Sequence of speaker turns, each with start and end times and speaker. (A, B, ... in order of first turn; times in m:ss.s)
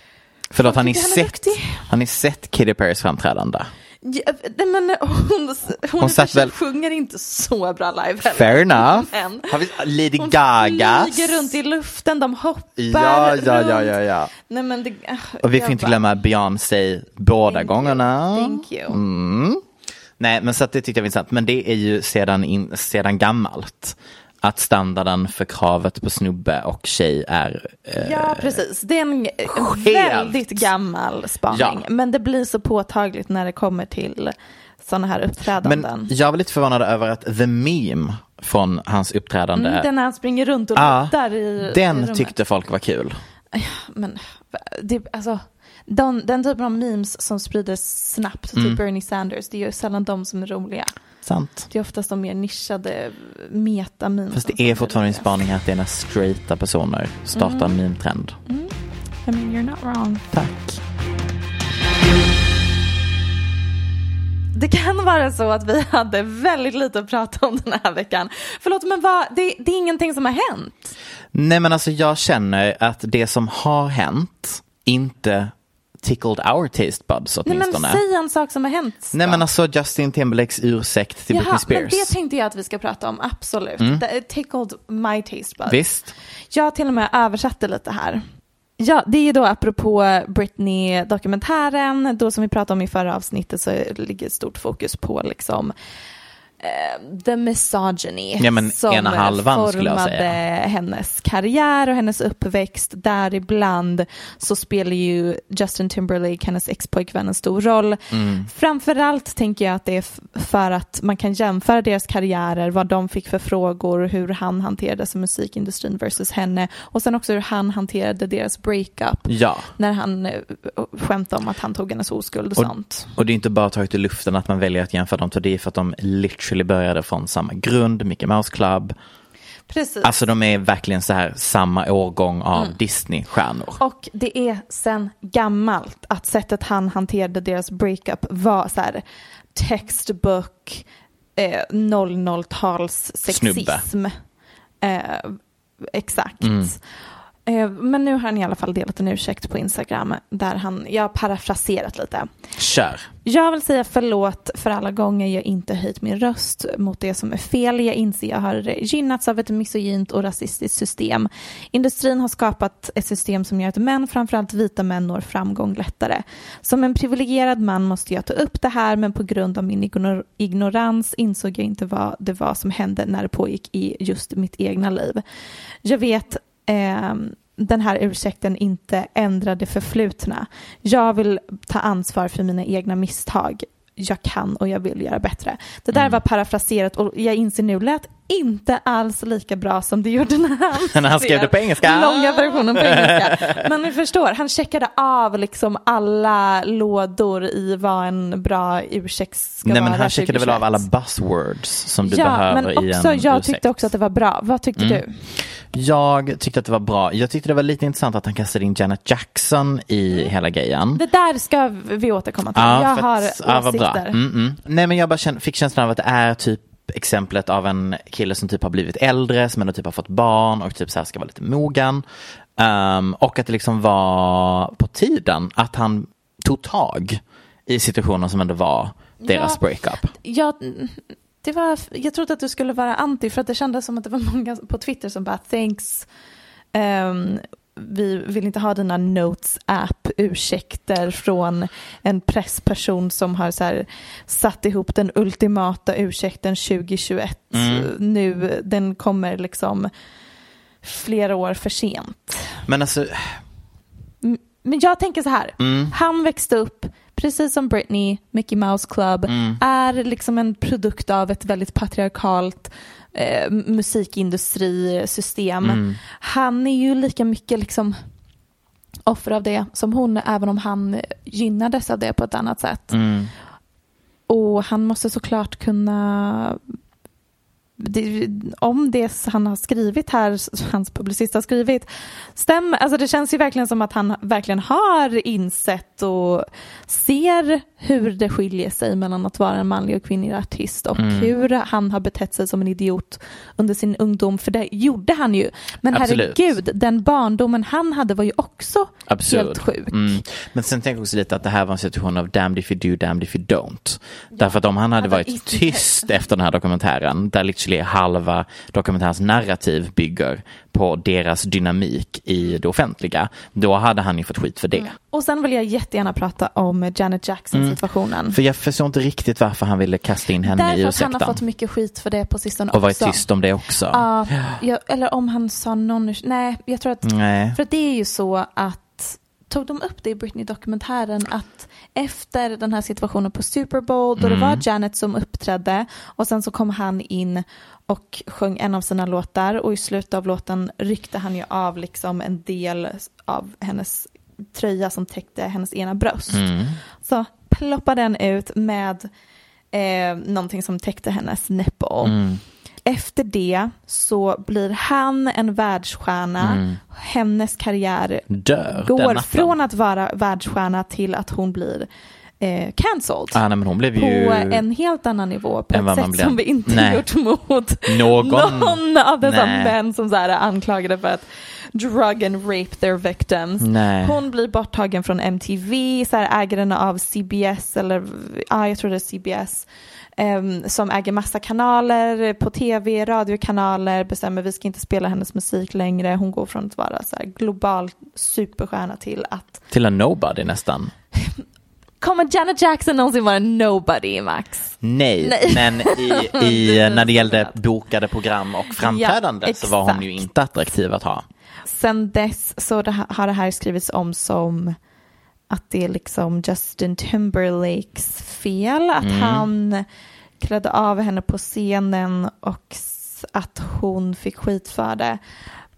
0:00.5-0:03.7 A
0:00.6-0:01.8 B
0:04.0-0:09.5 B
0:06.0-0:06.5 A
0:08.2-0:11.5 A
0:10.2-0:16.0 B
0:12.8-0:14.3 A
0:15.4-0:19.6 A
0:17.5-0:19.0 B
0:20.2-0:28.6 A
0:28.0-0:36.1 B
0:29.5-0:30.7 A
0:31.5-0:31.8 A
0:35.6-0:39.9 A
0:39.6-0:42.3 B
0:40.8-0:43.2 A
0:43.5-0:50.9 B
0:48.6-0:48.8 A
0:51.2-0:51.7 A
0:51.7-0:55.4 B
0:54.3-0:58.4 A
0:57.3-0:57.8 B
0:58.5-0:58.7 B
0:59.3-1:00.2 B
1:00.3-1:00.8 A
1:04.6-1:10.9 B
1:11.3-1:18.0 A
1:17.5-1:19.4 B
1:19.1-1:22.1 A
1:21.3-1:25.8 B
1:25.7-1:26.1 A
1:26.5-1:28.2 B
1:28.8-1:35.7 B
1:36.6-2:03.1 B
1:38.4-1:40.4 A
1:48.1-1:48.5 A
1:59.3-1:59.7 A
2:02.6-2:09.0 A
2:09.7-2:10.2 B
2:10.0-2:13.8 A
2:13.8-2:19.0 B
2:19.6-2:20.8 B
2:21.4-2:24.2 B
2:23.3-2:23.8 A
2:24.8-2:26.8 B
2:26.4-2:26.7 A
2:27.5-2:32.3 B
2:32.6-2:33.1 A
2:33.2-2:55.2 B
2:55.8-3:20.8 B
3:05.9-3:06.2 A
3:10.9-3:13.7 A
3:19.6-3:23.8 A
3:22.0-3:25.2 B
3:24.8-3:25.0 A
3:25.7-3:31.0 A
3:30.9-3:34.2 B
3:32.6-3:42.0 A
3:42.6-3:50.1 A
3:49.2-3:56.1 B
3:56.7-4:09.9 B
4:07.5-4:07.9 A
4:10.8-4:12.6 B
4:12.7-4:13.4 A
4:14.2-4:28.0 B
4:15.6-4:15.9 A
4:19.3-4:19.6 A
4:25.6-4:26.0 A
4:29.1-4:33.0 B
4:32.9-4:33.3 A
4:34.3-4:36.6 B
4:37.8-5:00.2 B
4:51.0-4:51.3 A
4:55.9-4:56.5 A
4:59.1-5:14.9 A
5:04.3-5:06.1 B
5:14.8-5:18.4 B
5:17.5-5:21.4 A
5:20.4-5:23.3 B
5:22.7-5:24.6 A
5:23.9-5:49.1 B
5:27.0-5:27.6 A
5:34.2-5:34.6 A
5:46.3-5:46.8 A
5:49.7-5:52.2 B
5:52.0-5:52.4 A
5:52.9-6:01.9 B
5:56.4-5:56.8 A
5:58.3-5:59.6 A
6:02.4-6:03.4 B
6:03.3-6:04.6 A
6:04.0-6:19.7 B
6:05.7-6:07.0 A
6:07.9-6:09.8 A
6:13.6-6:14.2 A
6:20.2-6:29.6 B
6:29.7-6:30.9 A
6:32.0-6:37.6 B
6:34.8-6:41.3 A
6:38.7-6:40.1 B
6:41.7-6:44.8 B
6:45.5-6:49.8 B
6:49.0-6:49.5 A
6:50.4-6:55.2 B